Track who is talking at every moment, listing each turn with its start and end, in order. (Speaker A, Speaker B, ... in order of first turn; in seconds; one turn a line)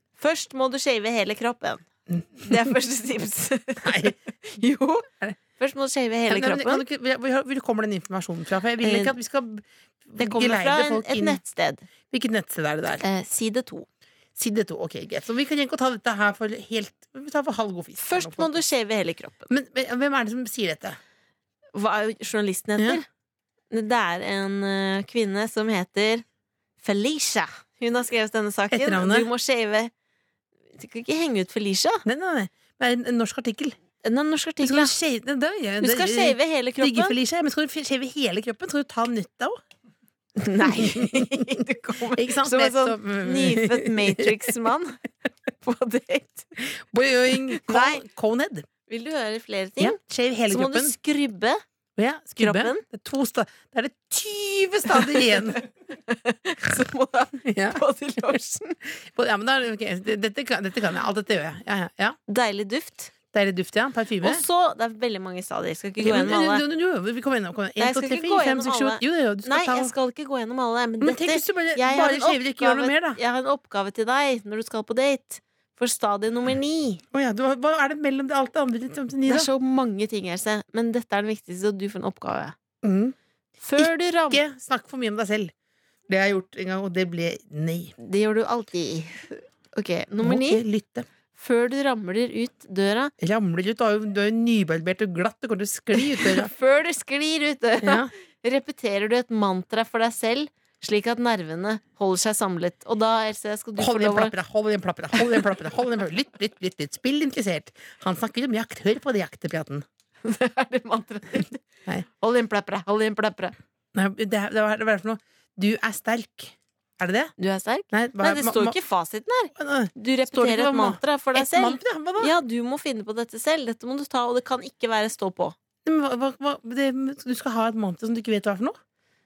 Speaker A: 0.2-1.8
Speaker B: 2.1-2.7
Speaker A: 2.4-5.1
Speaker B: 3.8-4.1
Speaker A: 5.6-6.8
Speaker B: 6.3-11.4
Speaker A: 8.8-9.1
Speaker A: 10.2-11.8
Speaker B: 12.1-13.0
Speaker A: 13.0-13.9
Speaker B: 14.3-18.6
Speaker A: 18.0-19.5
Speaker B: 19.5-21.0
Speaker A: 21.7-23.1
Speaker A: 23.7-26.2
Speaker A: 26.8-29.9
Speaker B: 28.7-29.3
Speaker A: 30.7-32.0
Speaker B: 32.0-33.8
Speaker A: 34.0-34.9
Speaker B: 34.6-39.6
Speaker A: 35.8-37.2
Speaker A: 40.4-45.0
Speaker B: 40.6-41.6
Speaker B: 42.1-44.5
Speaker A: 45.6-46.5
Speaker B: 46.6-48.7
Speaker A: 47.5-48.0
Speaker A: 48.9-50.0
Speaker B: 49.8-50.9
Speaker A: 50.5-51.6
Speaker B: 52.0-55.6
Speaker A: 52.4-52.8
Speaker A: 54.9-55.4
Speaker A: 56.0-58.8
Speaker B: 57.4-57.8
Speaker B: 58.9-62.2
Speaker A: 62.3-63.1
Speaker B: 63.3-64.4
Speaker A: 64.2-66.6
Speaker B: 66.0-69.9
Speaker A: 67.8-77.0
Speaker B: 71.0-73.2
Speaker B: 77.1-79.5
Speaker A: 79.3-82.5
Speaker B: 82.8-83.2
Speaker A: 83.6-84.4
Speaker B: 83.8-85.5
Speaker B: 86.1-87.9
Speaker A: 88.0-90.6
Speaker B: 90.2-91.0
Speaker A: 91.3-93.1
Speaker B: 93.2-96.5
Speaker A: 96.1-104.3
Speaker B: 97.8-98.1
Speaker B: 103.8-109.8
Speaker A: 110.2-111.6
Speaker A: 112.2-113.5
Speaker B: 113.9-117.3
Speaker A: 117.4-125.5
Speaker B: 117.9-118.8
Speaker B: 119.5-122.3
Speaker B: 125.8-128.8